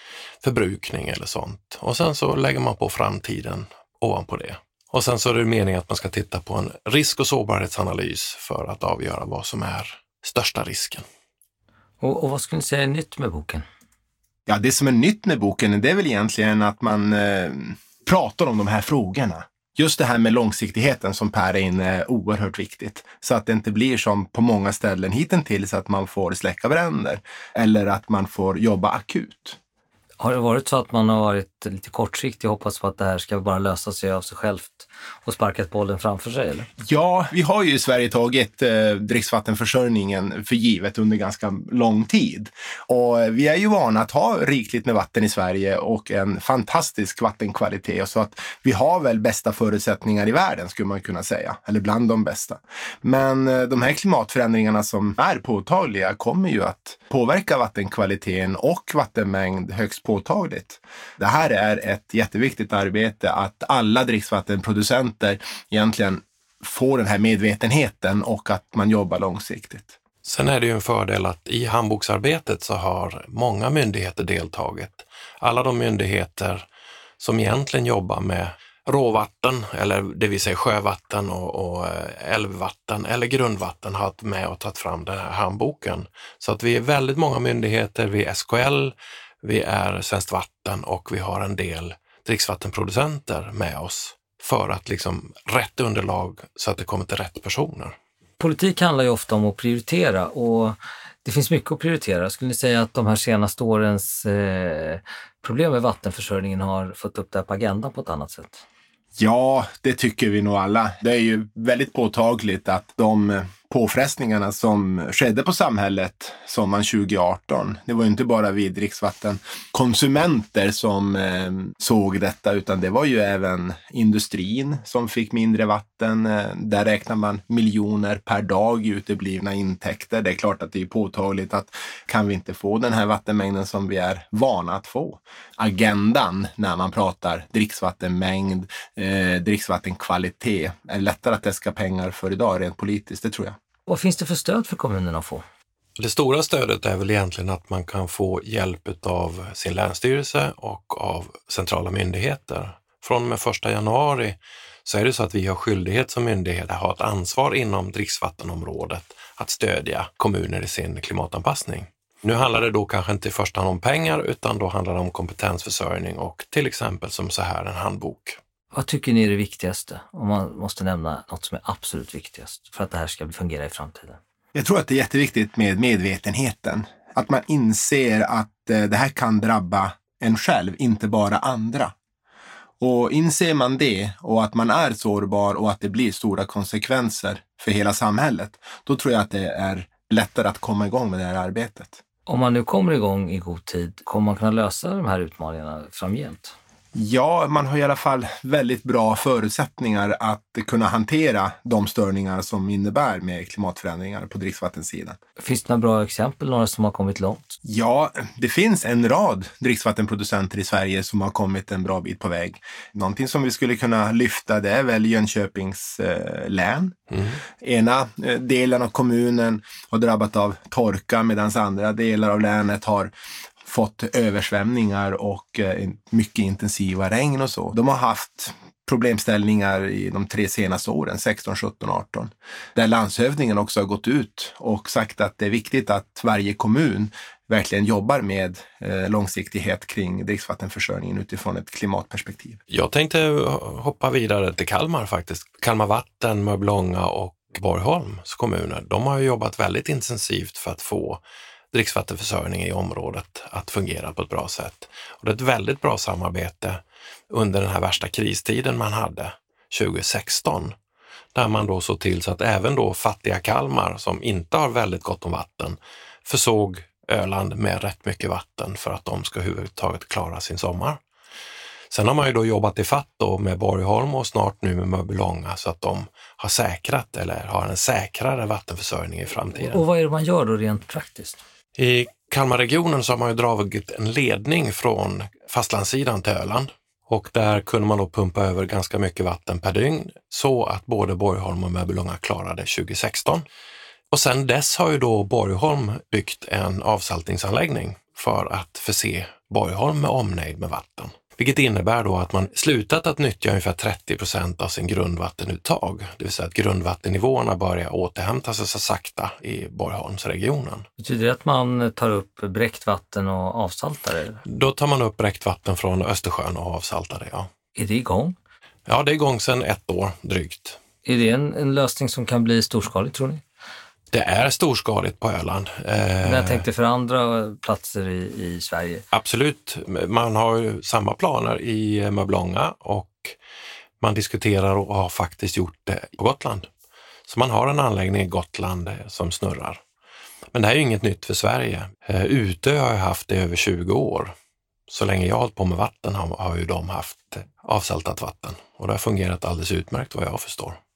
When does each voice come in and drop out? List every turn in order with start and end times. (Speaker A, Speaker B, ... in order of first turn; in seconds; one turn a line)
Speaker A: 0.4-11.1
Speaker B: 12.0-13.7
Speaker C: 14.5-29.6
Speaker B: 30.2-36.7
Speaker C: 36.9-70.0
Speaker A: 70.2-76.7
Speaker A: 77.2-98.0
Speaker B: 98.4-108.6
Speaker C: 109.2-143.6
Speaker B: 143.9-145.4
Speaker A: 146.0-168.4
Speaker B: 168.7-174.2
Speaker C: 174.5-181.9
Speaker C: 182.8-192.0
Speaker B: 192.3-196.6
Speaker C: 196.9-205.2
Speaker B: 205.4-207.6
Speaker C: 207.7-217.0
Speaker A: 217.1-217.4
Speaker C: 217.6-223.1
Speaker C: 223.6-242.6
Speaker A: 242.7-251.2
Speaker A: 251.7-260.8
Speaker A: 261.4-271.0
Speaker A: 271.9-279.8
Speaker B: 279.6-281.4
Speaker A: 281.8-293.4
Speaker A: 294.1-310.9
Speaker B: 311.0-314.4
Speaker A: 314.5-317.5
Speaker B: 317.8-318.4
Speaker A: 318.9-320.8
Speaker B: 321.0-323.4
Speaker A: 324.1-326.7
Speaker B: 326.2-329.0
Speaker A: 329.1-333.4
Speaker A: 334.0-336.7
Speaker A: 337.3-339.8
Speaker A: 340.5-344.3
Speaker A: 344.9-350.8